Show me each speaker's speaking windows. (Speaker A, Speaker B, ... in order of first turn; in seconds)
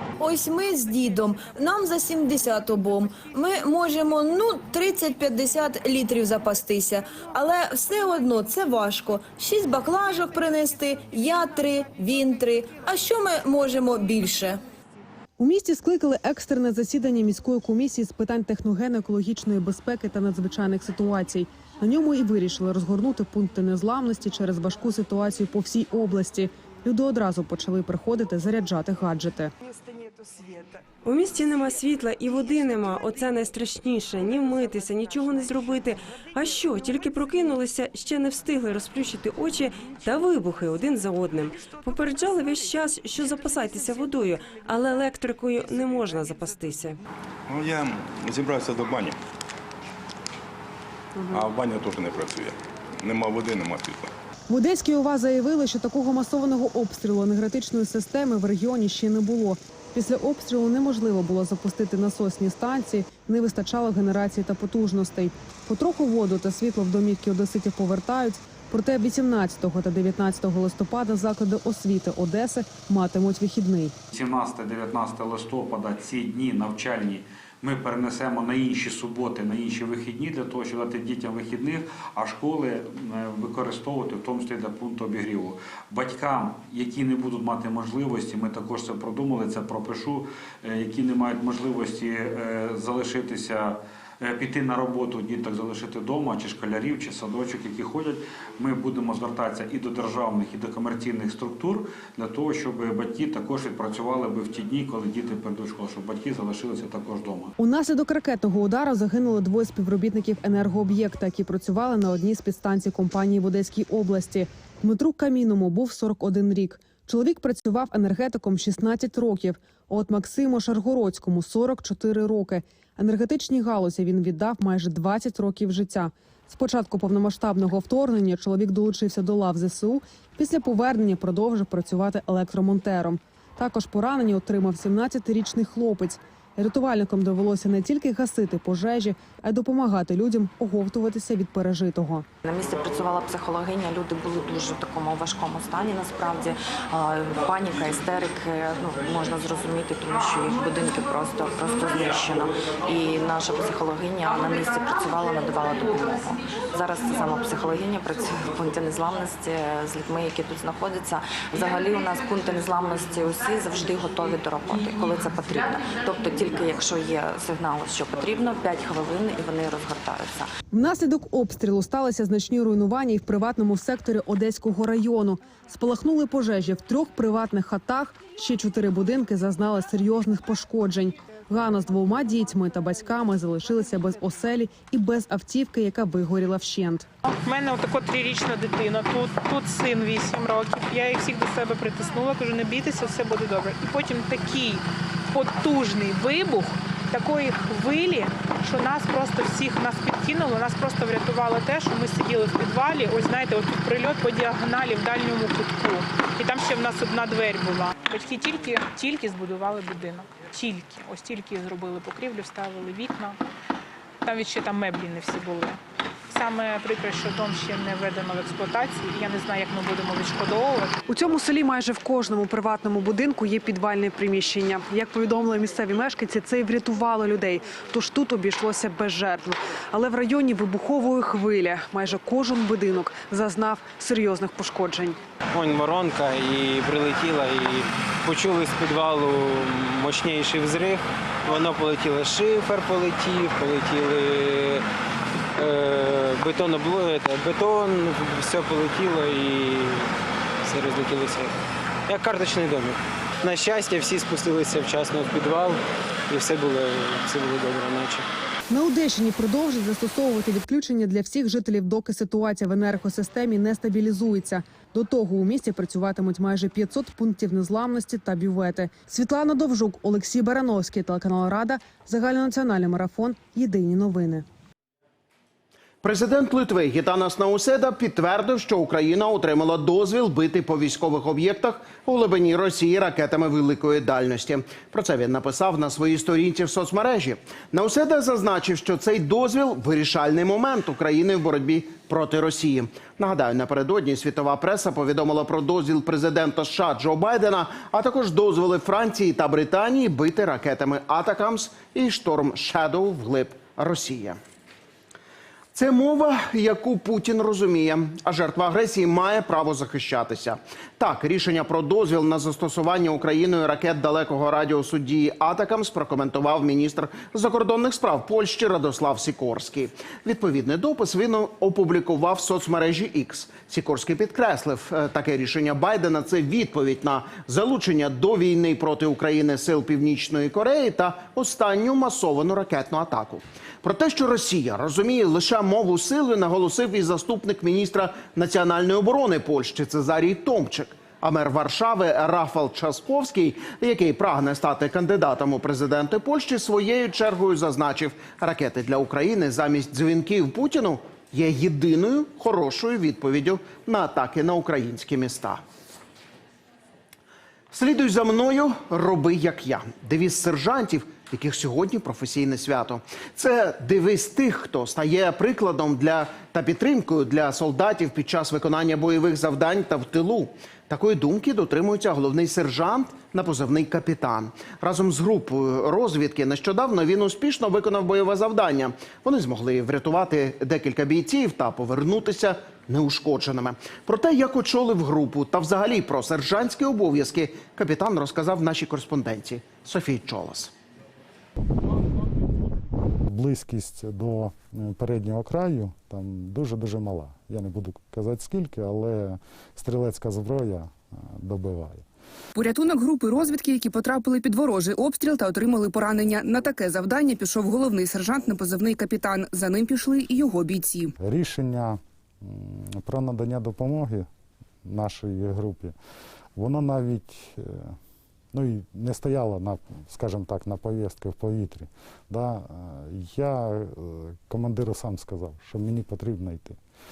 Speaker A: 0.2-14.6
Speaker B: 15.4-29.5, 54.5-73.9, 107.6-142.2, 170.7-187.1, 221.1-235.2, 258.7-274.4
Speaker C: 31.0-47.0
Speaker D: 47.5-49.2, 51.3-54.1
Speaker E: 74.1-107.5
Speaker F: 142.4-170.5
Speaker G: 187.2-213.4, 214.2-220.9
Speaker H: 235.5-244.8, 245.6-250.1, 250.6-251.5, 252.1-258.2
Speaker I: 276.0-304.4, 305.7-355.6, 357.7-390.7
Speaker J: 393.3-402.0, 411.2-414.3, 414.8-415.9, 416.6-417.9, 418.5-426.8
Speaker K: 402.5-411.1